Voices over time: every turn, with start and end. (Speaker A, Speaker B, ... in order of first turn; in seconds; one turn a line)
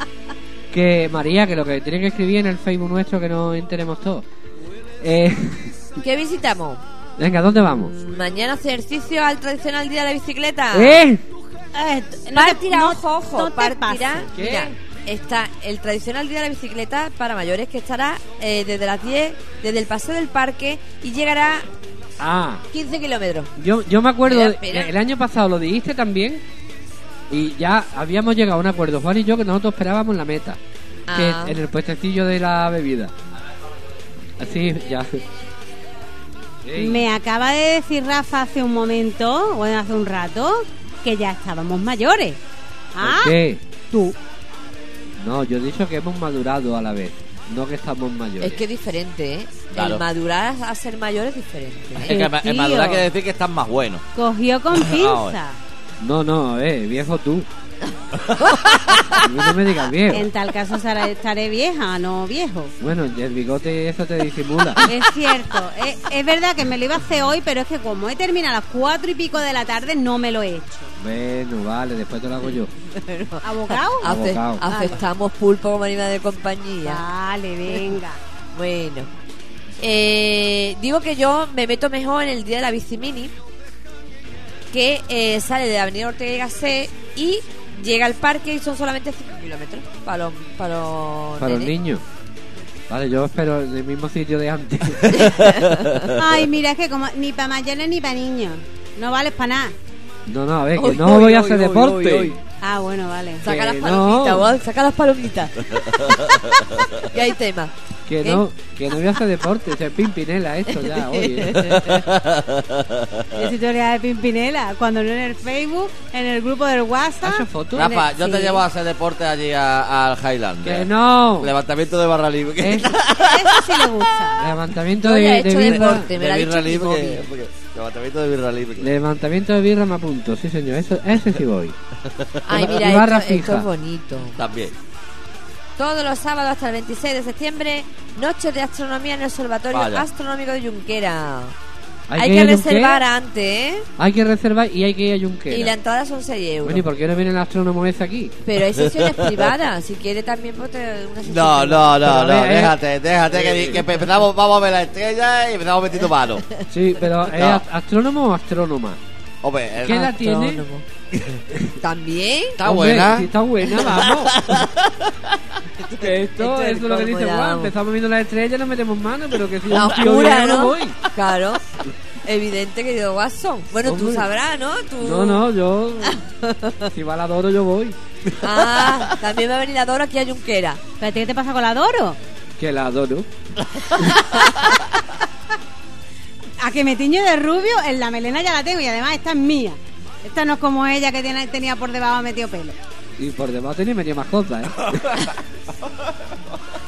Speaker A: 0.7-4.2
Speaker A: 5.0-5.8
Speaker B: 6.0-6.8
Speaker A: 7.2-7.9
Speaker B: 7.9-11.0
Speaker A: 10.7-11.2
Speaker C: 11.7-14.3
Speaker B: 12.3-21.7
Speaker A: 14.3-14.7
Speaker A: 22.2-22.6
Speaker B: 22.7-23.5
Speaker A: 23.6-26.4
Speaker B: 24.2-24.9
Speaker A: 27.3-30.6
Speaker B: 31.1-31.5
Speaker A: 31.1-33.1
Speaker A: 34.4-35.2
Speaker A: 36.6-37.0
Speaker C: 36.8-42.4
Speaker C: 42.9-43.4
Speaker A: 43.0-43.6
Speaker C: 43.9-44.1
Speaker A: 45.2-48.6
Speaker B: 48.4-52.2
Speaker D: 49.7-50.0
Speaker D: 52.0-54.0
Speaker C: 52.0-53.0
Speaker C: 54.1-55.6
Speaker D: 54.7-55.4
Speaker A: 56.0-57.5
Speaker B: 58.4-59.2
Speaker A: 59.2-60.2
Speaker C: 60.1-62.7
Speaker A: 62.8-64.8
Speaker C: 64.9-70.9
Speaker A: 71.0-72.7
Speaker B: 72.8-77.0
Speaker C: 73.4-74.0
Speaker A: 74.0-74.6
Speaker C: 74.7-75.0
Speaker C: 76.8-78.2
Speaker B: 77.7-78.0
Speaker B: 78.5-79.1
Speaker B: 79.8-83.3
Speaker B: 84.7-91.7
Speaker A: 91.4-92.0
Speaker A: 92.9-95.4
Speaker B: 95.2-96.1
Speaker D: 95.2-96.2
Speaker C: 96.2-99.7
Speaker A: 100.3-102.4
Speaker B: 100.8-102.4
Speaker C: 102.6-103.4
Speaker B: 103.4-106.3
Speaker A: 103.4-104.5
Speaker D: 105.8-106.9
Speaker B: 107.0-107.7
Speaker A: 108.1-111.7
Speaker B: 110.7-112.0
Speaker D: 111.5-113.5
Speaker C: 113.3-118.6
Speaker A: 117.2-117.9
Speaker D: 117.7-123.4
Speaker A: 120.6-121.5
Speaker A: 122.6-122.9
Speaker C: 123.2-124.4
Speaker A: 124.4-126.1
Speaker B: 125.0-127.2
Speaker D: 125.7-128.9
Speaker A: 128.8-131.8
Speaker B: 132.4-134.3
Speaker A: 132.5-133.7
Speaker D: 134.3-134.7
Speaker B: 135.8-141.5
Speaker D: 139.7-140.1
Speaker A: 142.1-143.0
Speaker B: 142.2-143.9
Speaker A: 144.0-145.7
Speaker B: 145.5-146.8
Speaker A: 146.6-148.3
Speaker B: 148.4-151.9
Speaker D: 148.7-149.5
Speaker D: 151.2-156.4
Speaker A: 152.0-152.8
Speaker B: 153.5-153.9
Speaker A: 156.7-159.0
Speaker D: 157.3-157.6
Speaker D: 159.4-160.1
Speaker A: 159.8-160.6
Speaker B: 159.8-160.8
Speaker D: 161.1-161.4
Speaker B: 161.8-162.6
Speaker D: 162.6-163.3
Speaker A: 162.6-164.4
Speaker B: 163.9-164.7
Speaker B: 165.8-167.7
Speaker A: 166.0-171.0
Speaker B: 169.7-171.6
Speaker B: 172.2-175.4
Speaker A: 173.8-174.2
Speaker A: 175.0-176.2
Speaker B: 176.1-176.9
Speaker A: 176.9-177.9
Speaker B: 178.4-180.8
Speaker C: 181.0-182.2
Speaker A: 182.6-183.3
Speaker C: 186.6-192.8
Speaker A: 193.2-195.2